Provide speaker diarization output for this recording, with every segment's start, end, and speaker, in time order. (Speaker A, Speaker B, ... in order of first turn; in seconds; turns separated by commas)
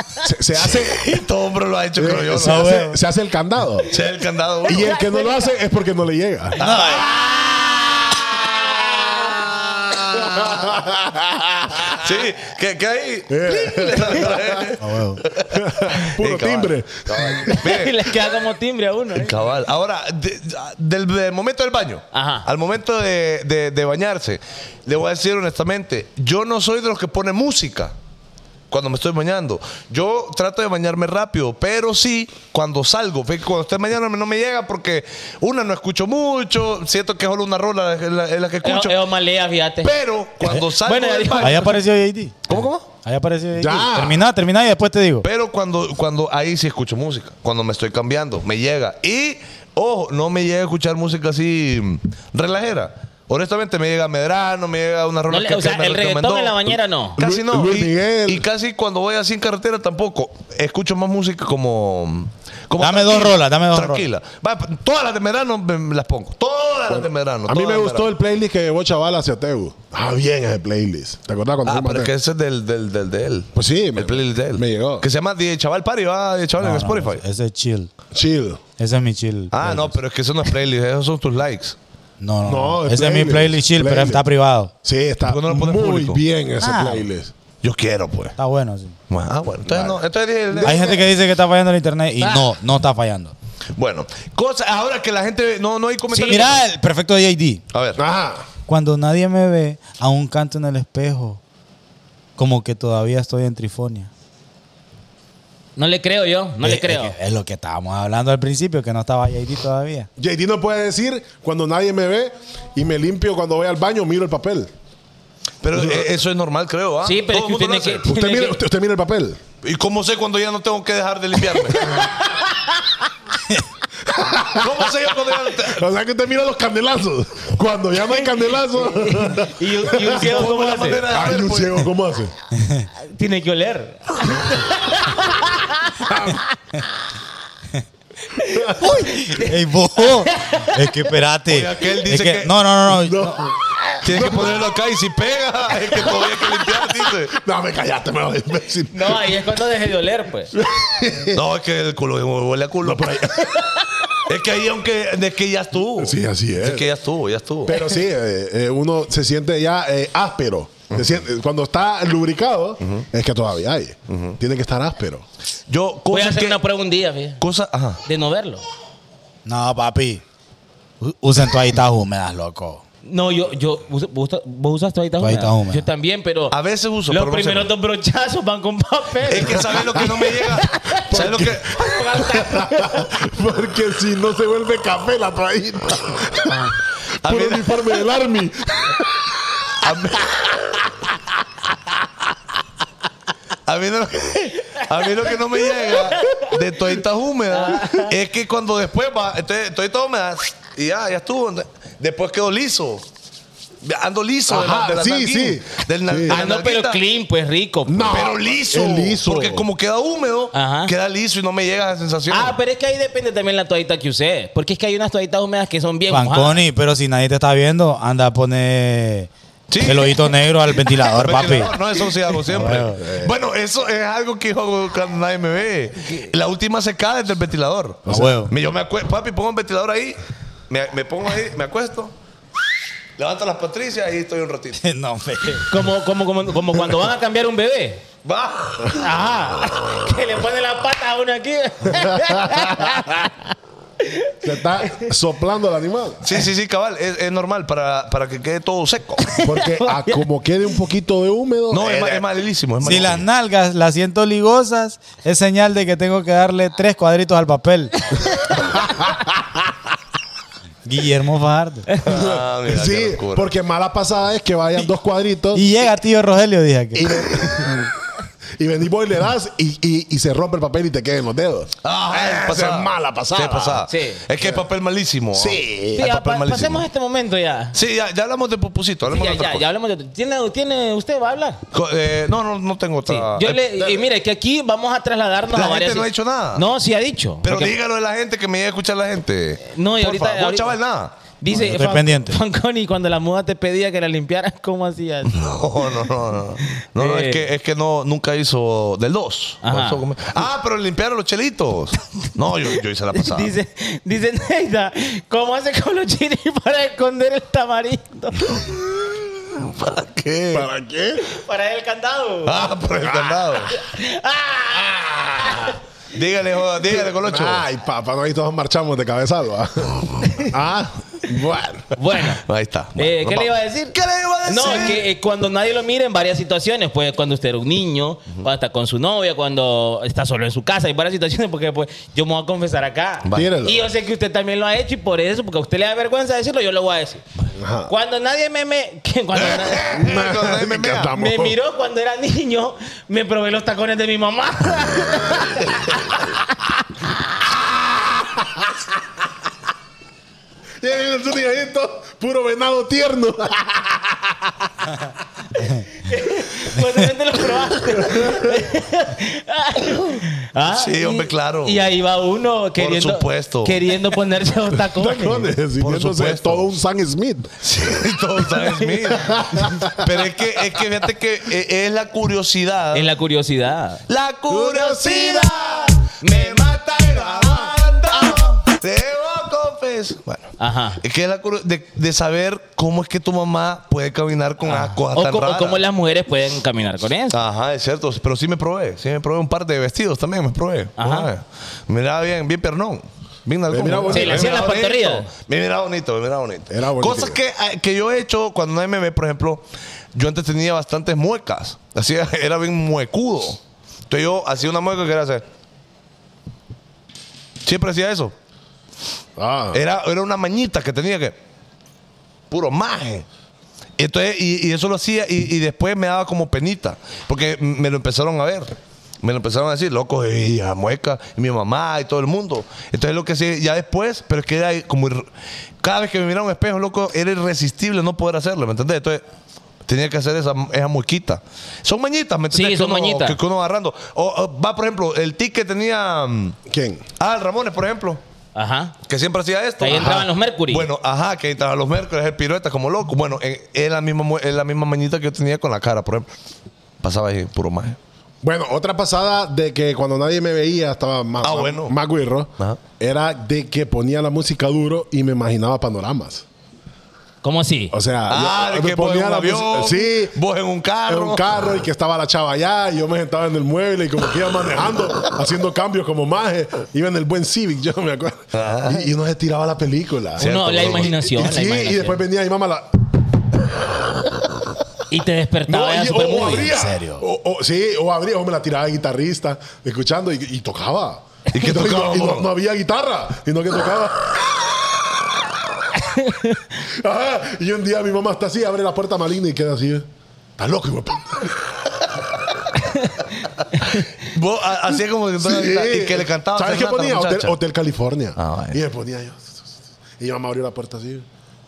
Speaker A: 0.2-1.1, Speaker B: 0.6-2.8, Speaker A: 1.9-4.0, Speaker C: 2.4-3.0, Speaker B: 3.9-4.9, Speaker A: 4.6-6.6, Speaker D: 4.7-5.5, Speaker B: 6.6-10.7, Speaker C: 6.6-7.2, Speaker A: 10.1-12.0, Speaker B: 11.9-18.1, Speaker A: 13.3-14.7, Speaker C: 14.8-15.2, Speaker A: 15.5-17.6, Speaker D: 17.5-19.3, Speaker B: 19.1-27.9, Speaker D: 22.1-22.4, Speaker B: 28.7-39.0, Speaker D: 38.6-41.8, Speaker B: 39.8-41.7, Speaker C: 41.4-45.2, Speaker B: 42.5-42.9, Speaker A: 43.5-44.2, Speaker B: 45.2-68.1, Speaker D: 55.3-57.2, Speaker A: 57.2-58.5, Speaker C: 62.8-64.0, Speaker A: 66.9-72.1, Speaker B: 71.6-77.2, Speaker A: 73.5-75.1, Speaker C: 76.6-77.9, Speaker A: 78.1-78.6, Speaker C: 78.8-80.0, Speaker B: 79.5-81.8, Speaker C: 82.2-84.7, Speaker A: 82.4-84.2, Speaker A: 84.8-87.3, Speaker B: 85.2-86.2, Speaker C: 86.6-87.0, Speaker B: 87.6-88.4, Speaker C: 88.4-89.0, Speaker B: 89.1-91.0, Speaker A: 89.7-91.0, Speaker C: 90.6-93.3, Speaker B: 93.7-96.6, Speaker D: 96.1-96.4, Speaker C: 96.2-97.6, Speaker B: 97.7-98.0, Speaker A: 98.0-98.5, Speaker C: 98.7-101.4, Speaker C: 102.4-104.1, Speaker D: 105.8-107.1, Speaker C: 106.6-110.1, Speaker A: 110.2-114.7, Speaker B: 115.6-118.1, Speaker A: 115.7-116.1, Speaker D: 117.0-118.6, Speaker A: 118.0-119.4, Speaker B: 119.6-122.0, Speaker D: 121.8-122.8, Speaker A: 124.1-124.9, Speaker B: 124.5-125.8, Speaker A: 125.6-132.3, Speaker D: 128.8-131.1, Speaker B: 130.0-131.9, Speaker C: 132.6-132.9, Speaker D: 133.0-136.1, Speaker A: 136.0-136.4, Speaker D: 138.3-140.8, Speaker A: 138.4-139.0, Speaker C: 138.8-143.5, Speaker B: 141.5-142.5, Speaker A: 142.9-144.6, Speaker B: 144.0-147.3, Speaker A: 147.3-149.3, Speaker D: 148.9-150.5, Speaker A: 150.5-151.4, Speaker B: 151.3-153.3, Speaker A: 152.8-153.7, Speaker B: 154.2-157.8, Speaker A: 156.0-156.9, Speaker A: 157.7-165.2, Speaker B: 164.1-164.4, Speaker B: 165.7-166.6, Speaker D: 166.1-167.4, Speaker B: 167.4-168.0, Speaker D: 168.0-168.6, Speaker C: 169.4-170.2, Speaker C: 171.0-172.8, Speaker D: 173.0-176.5, Speaker C: 175.2-175.8, Speaker B: 176.5-177.7, Speaker D: 177.1-183.1, Speaker B: 179.2-181.8, Speaker A: 181.1-190.4, Speaker B: 187.2-188.0, Speaker B: 189.8-190.6, Speaker B: 193.7-203.0, Speaker D: 194.5-194.8, Speaker D: 195.8-196.6, Speaker D: 197.5-198.1, Speaker B: 203.8-207.0, Speaker A: 204.5-206.4, Speaker D: 206.3-208.3, Speaker A: 207.8-209.7, Speaker B: 208.1-212.6, Speaker D: 210.5-210.9, Speaker D: 212.3-216.6, Speaker C: 216.1-221.8, Speaker B: 219.7-220.3, Speaker B: 220.9-232.1, Speaker C: 222.4-223.0, Speaker A: 223.0-223.3, Speaker A: 228.1-228.4, Speaker C: 228.1-228.5, Speaker B: 233.2-234.8, Speaker C: 234.8-235.8, Speaker D: 235.7-238.0, Speaker B: 238.2-239.0, Speaker D: 238.9-245.0, Speaker A: 241.9-243.0, Speaker A: 244.4-246.2, Speaker B: 246.2-249.3, Speaker D: 249.2-250.2, Speaker A: 249.4-252.2, Speaker B: 251.7-253.2, Speaker C: 252.8-257.9, Speaker A: 258.5-259.6, Speaker C: 260.8-261.9, Speaker B: 262.0-263.5, Speaker A: 262.0-265.7, Speaker C: 265.5-267.3, Speaker A: 266.9-267.9, Speaker A: 268.6-273.9, Speaker B: 271.8-276.8, Speaker D: 273.9-274.2, Speaker A: 274.4-274.6, Speaker A: 275.3-276.1, Speaker D: 275.9-277.8, Speaker B: 277.7-279.6, Speaker D: 279.1-281.6, Speaker B: 281.7-283.9, Speaker D: 283.1-287.7, Speaker B: 285.5-286.6, Speaker B: 287.4-291.1, Speaker D: 289.6-290.7, Speaker D: 291.4-296.1, Speaker C: 291.5-292.4, Speaker B: 295.3-303.5, Speaker D: 296.6-297.4, Speaker D: 299.6-300.0, Speaker D: 303.1-308.6, Speaker B: 308.4-310.7, Speaker A: 310.5-311.3, Speaker D: 311.2-312.7, Speaker B: 312.4-313.7, Speaker A: 313.0-313.5, Speaker D: 313.7-315.7, Speaker A: 314.7-315.8, Speaker B: 316.1-317.6, Speaker A: 316.8-321.9, Speaker D: 321.9-322.4, Speaker B: 322.2-325.1, Speaker D: 323.0-337.2, Speaker B: 333.2-333.5, Speaker A: 333.3-333.9, Speaker A: 337.5-337.9, Speaker D: 337.9-340.1, Speaker B: 339.3-341.1, Speaker A: 339.9-341.6, Speaker D: 341.1-347.1, Speaker A: 347.9-348.7, Speaker A: 350.8-354.7, Speaker D: 356.0-365.5, Speaker A: 358.0-358.5, Speaker B: 360.6-361.8, Speaker B: 362.8-363.9, Speaker A: 364.9-367.9, Speaker B: 365.8-366.7, Speaker B: 367.6-373.1, Speaker D: 368.6-369.0, Speaker A: 369.1-370.2, Speaker D: 372.9-374.0, Speaker B: 374.1-385.8, Speaker A: 374.5-375.7, Speaker D: 376.2-377.3, Speaker A: 377.4-377.7, Speaker D: 378.1-378.6, Speaker D: 380.6-381.0, Speaker D: 384.6-387.4, Speaker B: 387.3-405.4, Speaker D: 391.0-391.3, Speaker A: 393.7-394.5, Speaker D: 394.1-395.3, Speaker A: 396.7-397.4, Speaker B: 407.6-408.3, Speaker A: 409.4-409.8, Speaker B: 409.7-411.4, Speaker B: 412.5-413.2, Speaker B: 414.0-425.2, Speaker B: 425.8-429.2, Speaker B: 429.9-436.6, Speaker D: 432.5-433.4, Speaker A: 436.7-437.0, Speaker B: 437.2-438.2, Speaker D: 438.5-438.9, Speaker B: 439.1-446.3, Speaker D: 439.8-440.9, Speaker A: 439.9-440.2, Speaker B: 447.0-448.0, Speaker A: 448.4-456.4, Speaker B: 451.4-451.9, Speaker D: 457.4-457.9, Speaker A: 457.9-460.3, Speaker B: 458.3-461.5, Speaker A: 461.1-473.1, Speaker B: 468.5-469.1, Speaker D: 470.4-472.2, Speaker B: 470.4-471.1, Speaker D: 475.1-476.7, Speaker A: 475.7-485.6, Speaker C: 476.5-477.2, Speaker B: 481.5-482.5, Speaker D: 486.0-486.6, Speaker A: 486.8-490.1, Speaker A: 490.6-492.1, Speaker D: 492.9-493.1, Speaker B: 493.8-497.5, Speaker A: 495.4-501.2, Speaker B: 498.4-498.8